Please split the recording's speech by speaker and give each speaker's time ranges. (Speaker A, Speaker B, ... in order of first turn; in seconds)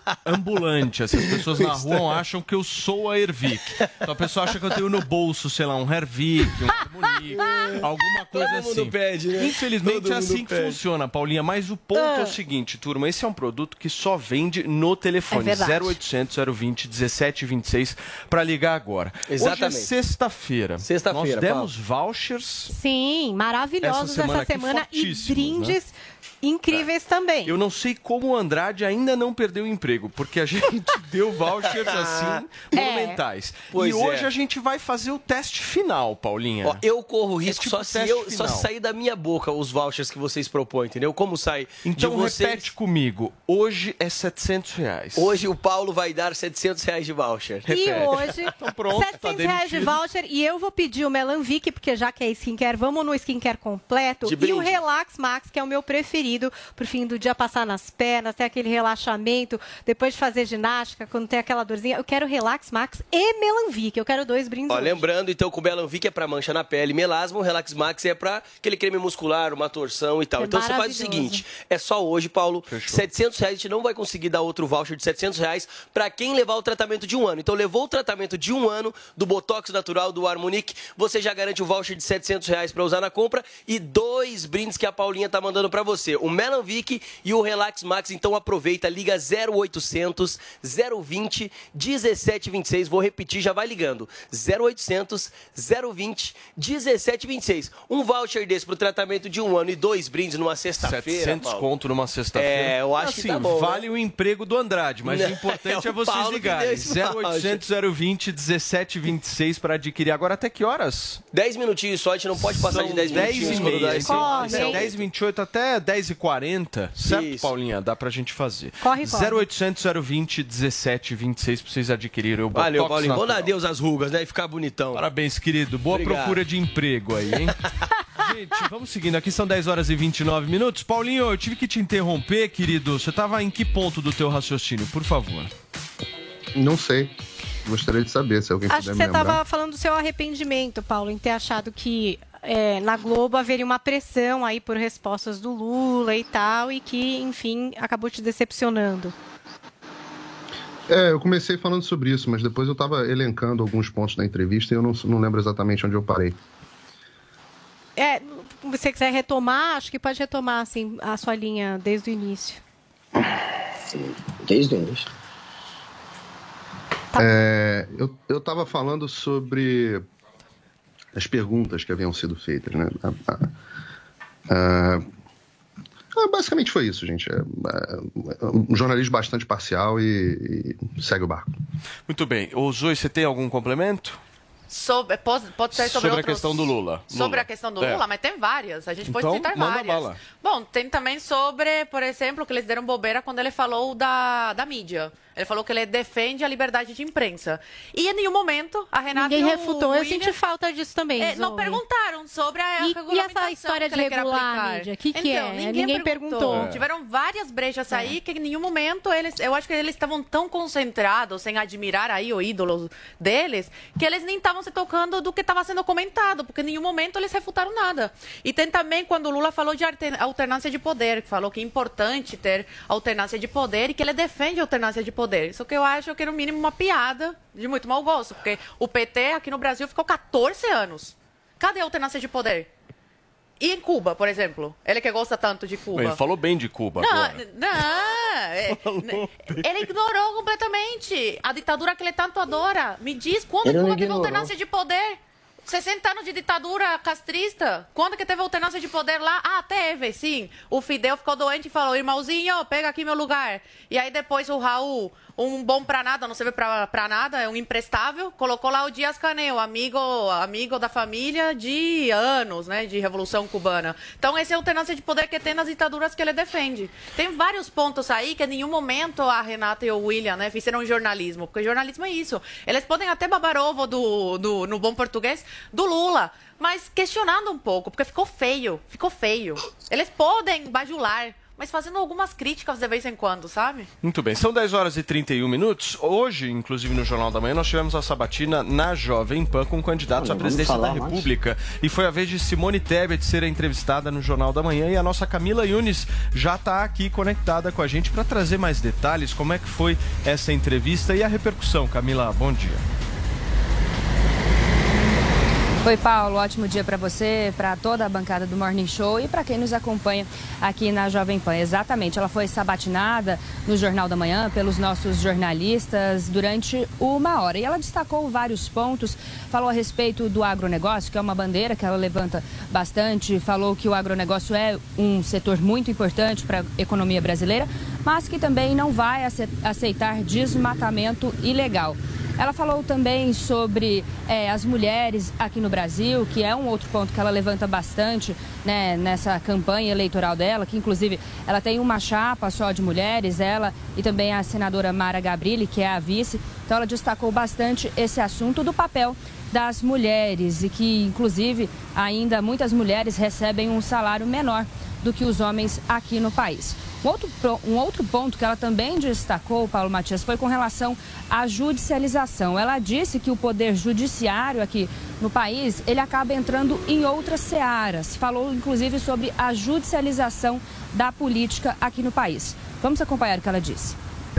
Speaker A: 0.2-22.7, 23.8-25.8, 27.5-36.8, 37.5-38.7, 41.8-45.3, 47.6-50.0, 72.7-73.1, 100.8-111.2, 112.4-123.5, 124.9-127.6, 128.2-135.5, 182.1-184.2, 185.7-188.1, 189.1-190.2, 206.5-206.8, 235.9-237.9, 238.7-239.9, 284.0-302.8
Speaker B: 8.3-10.7, 19.3-19.9, 20.8-21.7, 31.9-32.4, 33.7-34.3, 36.6-42.6, 45.2-48.1, 54.2-54.8, 64.7-101.7, 102.3-103.8, 105.0-107.6, 111.3-115.0, 117.0-117.5, 122.5-125.0, 125.9-126.4
Speaker C: 11.9-12.3, 15.3-16.0, 22.7-27.5, 32.8-33.2, 47.7-65.0, 70.4-71.4, 114.0-114.8, 118.8-119.4, 138.7-149.1, 158.0-162.6, 199.1-201.8, 202.8-206.7
Speaker D: 136.6-137.1, 137.7-139.4, 150.9-156.4, 167.2-170.1, 171.2-173.5, 174.5-175.0, 176.2-181.5
Speaker E: 164.4-165.1, 243.6-244.5, 290.1-291.2
Speaker F: 184.7-200.3, 201.2-232.7, 233.6-236.2, 237.0-283.9
Speaker G: 305.8-374.0